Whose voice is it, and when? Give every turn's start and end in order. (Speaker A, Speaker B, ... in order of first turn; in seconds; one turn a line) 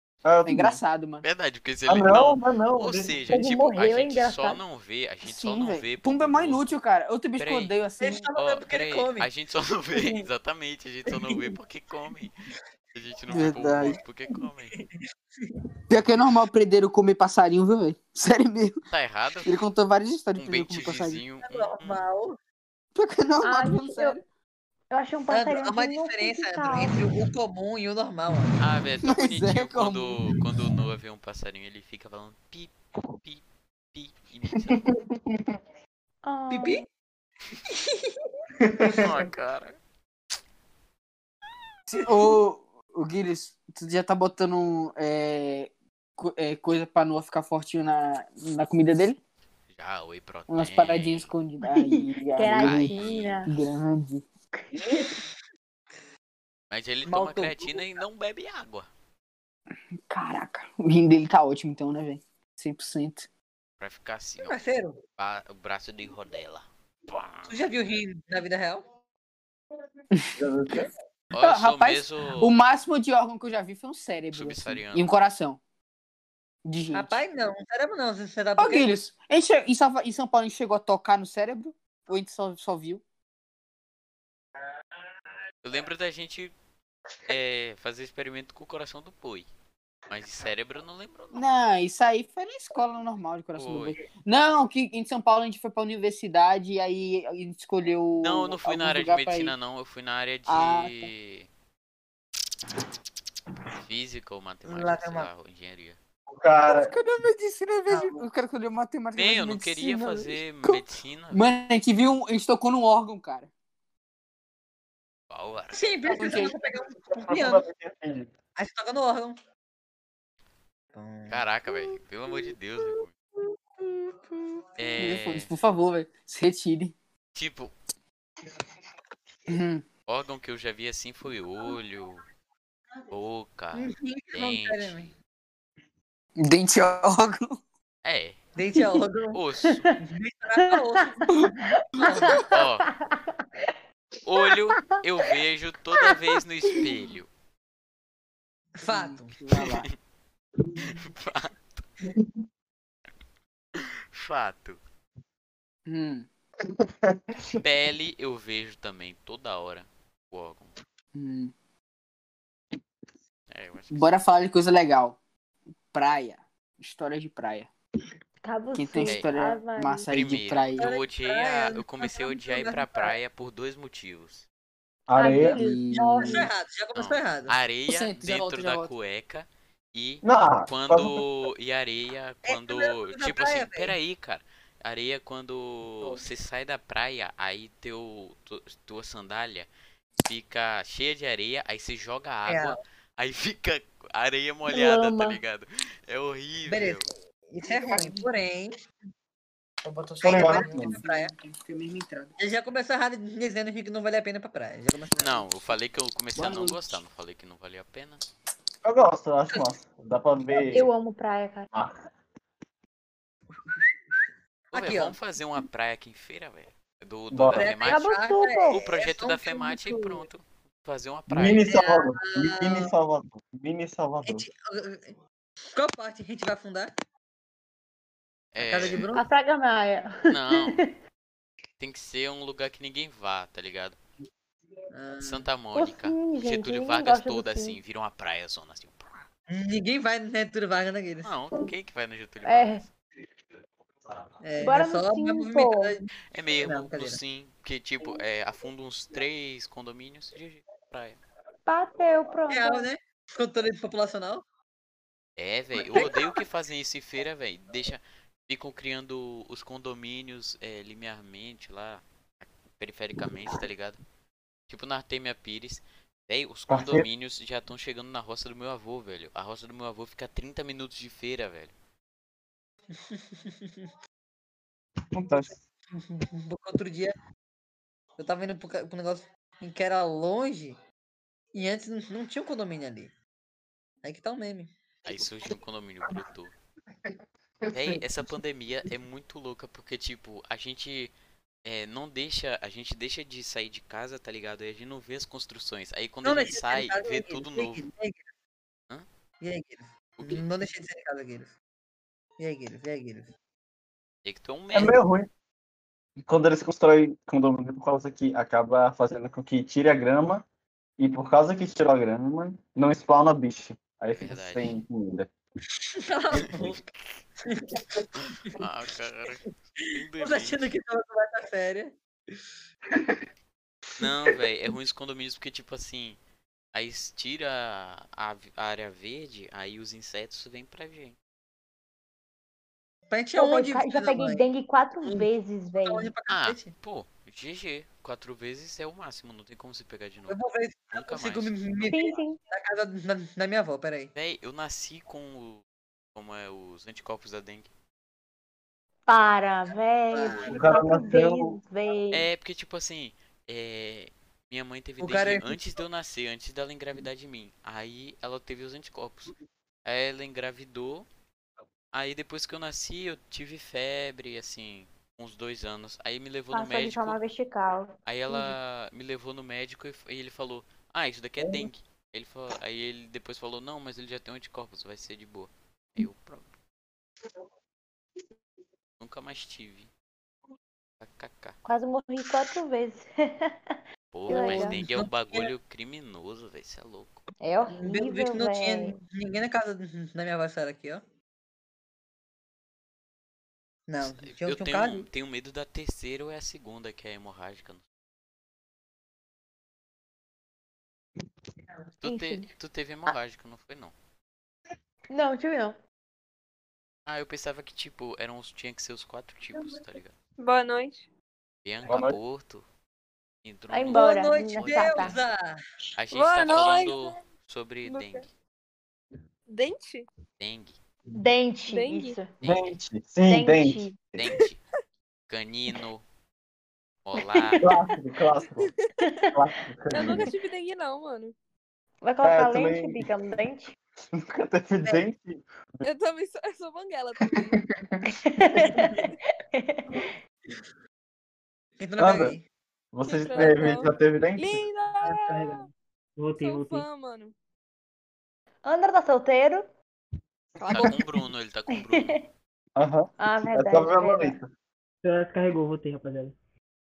Speaker A: 0.2-0.8
Speaker B: 0.4-1.2
Speaker C: 1.2-6.7
Speaker A: 1.9-3.4
Speaker D: 3.3-4.6
Speaker B: 5.2-8.3
Speaker C: 7.4-7.7
Speaker E: 8.0-9.3
Speaker C: 8.3-12.3
Speaker E: 9.9-10.2
Speaker E: 11.1-11.4
Speaker C: 12.9-14.8
Speaker B: 13.3-14.0
Speaker B: 15.9-18.8
Speaker C: 18.9-19.5
Speaker B: 19.4-21.2
Speaker C: 20.4-22.0
Speaker E: 21.4-22.4
Speaker B: 22.9-24.2
Speaker D: 23.4-24.2
Speaker D: 24.9-27.0
Speaker E: 25.3-28.6
Speaker C: 28.6-33.4
Speaker B: 29.0-30.2
Speaker C: 33.9-34.9
Speaker D: 36.2-36.9
Speaker E: 36.5-36.8
Speaker A: 38.6-39.2
Speaker C: 38.8-39.8
Speaker B: 41.9-49.2
Speaker C: 49.7-51.3
Speaker B: 50.5-54.2
Speaker D: 51.6-53.5
Speaker C: 52.5-53.4
Speaker D: 54.5-55.1
Speaker E: 54.8-55.3
Speaker C: 56.7-58.9
Speaker E: 57.0-57.8
Speaker B: 60.1-63.3
Speaker C: 63.8-64.6
Speaker E: 64.4-65.0
Speaker C: 65.2-67.7
Speaker E: 67.5-68.9
Speaker A: 70.3-70.9
Speaker C: 71.3-72.5
Speaker B: 71.4-75.6
Speaker C: 74.3-75.1
Speaker B: 76.7-77.2
Speaker E: 76.9-78.9
Speaker B: 78.6-83.0
Speaker C: 85.6-86.5
Speaker C: 87.3-89.5
Speaker C: 90.1-91.4
Speaker B: 91.3-99.5
Speaker C: 93.5-94.0
Speaker C: 98.2-101.5
Speaker B: 100.5-101.1
Speaker C: 103.8-106.0
Speaker E: 104.7-105.3
Speaker A: 106.3-106.9
Speaker B: 106.7-113.5
Speaker E: 107.9-108.2
Speaker C: 109.2-111.5
Speaker C: 115.3-115.9
Speaker E: 115.7-117.6
Speaker B: 116.1-116.5
Speaker A: 117.1-118.3
Speaker E: 118.5-119.4
Speaker E: 120.9-121.4
Speaker C: 121.3-123.1
Speaker C: 124.8-125.5
Speaker B: 125.0-126.9
Speaker C: 127.3-127.7
Speaker B: 129.5-129.8
Speaker C: 130.1-132.2
Speaker C: 133.1-135.1
Speaker E: 133.7-135.1
Speaker B: 136.4-137.6
Speaker C: 138.0-138.4
Speaker E: 138.6-139.4
Speaker C: 139.3-139.9
Speaker E: 140.0-141.5
Speaker D: 140.6-143.2
Speaker C: 142.5-142.9
Speaker C: 144.2-147.3
Speaker D: 145.9-146.2
Speaker E: 148.8-149.3
Speaker B: 148.8-149.9
Speaker C: 149.5-149.9
Speaker C: 150.8-151.8
Speaker C: 153.8-154.8
Speaker B: 155.9-156.3
Speaker A: 156.6-157.6
Speaker C: 157.6-160.7
Speaker B: 161.1-161.5
Speaker C: 163.5-164.1
Speaker B: 163.9-165.2
Speaker B: 165.9-167.7
Speaker D: 168.4-170.1
Speaker B: 168.7-170.9
Speaker C: 170.1-174.4
Speaker E: 170.8-173.1
Speaker A: 175.1-175.6
Speaker D: 175.1-176.5
Speaker B: 175.2-176.4
Speaker E: 175.9-177.5
Speaker C: 176.9-189.7
Speaker B: 177.9-178.9
Speaker A: 180.2-181.2
Speaker E: 182.5-183.9
Speaker C: 190.2-197.1
Speaker E: 192.5-192.8
Speaker D: 194.7-195.4
Speaker E: 196.7-198.7
Speaker B: 197.6-198.3
Speaker B: 199.8-202.3
Speaker E: 200.2-201.3
Speaker A: 200.2-201.0
Speaker E: 202.4-205.5
Speaker C: 205.2-208.2
Speaker B: 206.3-206.8
Speaker A: 208.8-210.9
Speaker D: 210.7-211.7
Speaker A: 211.7-212.0
Speaker E: 214.7-215.2
Speaker C: 214.7-218.1
Speaker A: 217.3-217.7
Speaker E: 217.5-220.2
Speaker D: 217.8-218.8
Speaker C: 218.7-221.6
Speaker A: 221.3-224.4
Speaker E: 221.6-222.9
Speaker E: 224.2-225.2
Speaker E: 225.7-226.9
Speaker C: 228.5-229.0
Speaker E: 228.6-229.3
Speaker D: 229.1-230.9
Speaker C: 230.3-230.8
Speaker C: 231.8-234.0
Speaker E: 234.9-235.5
Speaker C: 235.2-239.2
Speaker D: 235.7-237.8
Speaker E: 239.5-241.3
Speaker C: 241.2-242.9
Speaker D: 242.4-242.8
Speaker E: 244.4-246.1
Speaker D: 244.6-245.9
Speaker C: 246.3-251.2
Speaker E: 246.6-247.2
Speaker D: 251.7-252.9
Speaker E: 252.5-254.4
Speaker C: 255.4-264.0
Speaker E: 255.9-256.2
Speaker C: 264.7-271.7
Speaker A: 266.7-267.1
Speaker E: 272.9-273.9
Speaker A: 275.1-275.6
Speaker E: 275.9-277.1
Speaker E: 278.2-280.8
Speaker E: 281.5-283.1
Speaker E: 284.0-284.7
Speaker C: 285.0-286.5
Speaker A: 287.6-288.0
Speaker C: 287.7-291.1
Speaker C: 291.6-297.9
Speaker E: 296.2-298.3
Speaker E: 299.4-301.5
Speaker C: 300.2-300.4
Speaker E: 302.4-303.3
Speaker C: 304.2-305.0
Speaker A: 304.7-305.3
Speaker A: 306.2-310.4
Speaker A: 311.0-315.3
Speaker C: 314.2-314.8
Speaker E: 315.9-316.9
Speaker E: 317.4-317.8
Speaker C: 318.5-320.7
Speaker E: 320.2-322.4
Speaker A: 322.9-323.2
Speaker C: 324.0-326.2
Speaker C: 326.7-331.1
Speaker E: 333.1-334.4
Speaker D: 333.3-336.1
Speaker E: 335.0-336.7
Speaker C: 336.3-340.4
Speaker E: 340.3-344.1
Speaker C: 340.9-341.7
Speaker D: 341.9-342.4
Speaker C: 344.1-345.6
Speaker C: 346.1-347.7
Speaker D: 349.1-352.3
Speaker E: 350.1-350.8
Speaker A: 350.5-351.6
Speaker C: 352.1-359.3
Speaker E: 355.0-355.5
Speaker C: 359.8-361.1
Speaker C: 361.9-367.2
Speaker D: 366.5-368.5
Speaker C: 368.1-376.5
Speaker A: 371.4-371.6
Speaker C: 379.0-379.9
Speaker C: 381.0-381.6
Speaker D: 381.6-383.7
Speaker C: 384.1-387.2
Speaker D: 384.3-384.8
Speaker E: 384.3-385.5
Speaker D: 387.4-389.0
Speaker E: 387.8-391.0
Speaker E: 393.9-395.1
Speaker C: 394.0-397.8
Speaker C: 402.0-403.9
Speaker D: 402.0-402.5
Speaker D: 405.1-405.8
Speaker C: 407.1-410.1
Speaker F: 410.4-411.1
Speaker C: 411.6-412.6
Speaker A: 411.9-412.2
Speaker C: 413.4-415.2
Speaker D: 413.7-415.2
Speaker E: 413.9-415.6
Speaker C: 416.0-418.3
Speaker F: 416.1-417.2
Speaker F: 417.9-418.2
Speaker F: 419.5-420.1
Speaker C: 420.4-420.8
Speaker D: 421.1-422.3
Speaker F: 421.6-422.2
Speaker C: 422.4-422.8
Speaker A: 422.4-424.2
Speaker D: 423.3-424.0
Speaker C: 424.2-424.6
Speaker C: 425.3-426.0
Speaker C: 427.0-427.7
Speaker D: 427.2-427.8
Speaker A: 427.6-428.7
Speaker D: 429.0-429.4
Speaker A: 429.3-430.3
Speaker F: 429.9-431.3
Speaker D: 432.0-433.8
Speaker A: 432.2-433.1
Speaker A: 434.1-435.8
Speaker F: 435.8-437.6
Speaker D: 438.1-440.1
Speaker E: 441.8-442.4
Speaker A: 442.0-442.4
Speaker A: 442.9-444.6
Speaker F: 443.0-445.7
Speaker G: 445.3-446.9
Speaker F: 446.4-447.3
Speaker D: 448.6-449.6
Speaker F: 450.6-451.1
Speaker C: 450.7-452.3
Speaker D: 451.7-452.2
Speaker A: 452.8-454.5
Speaker D: 453.2-454.4
Speaker G: 455.0-456.3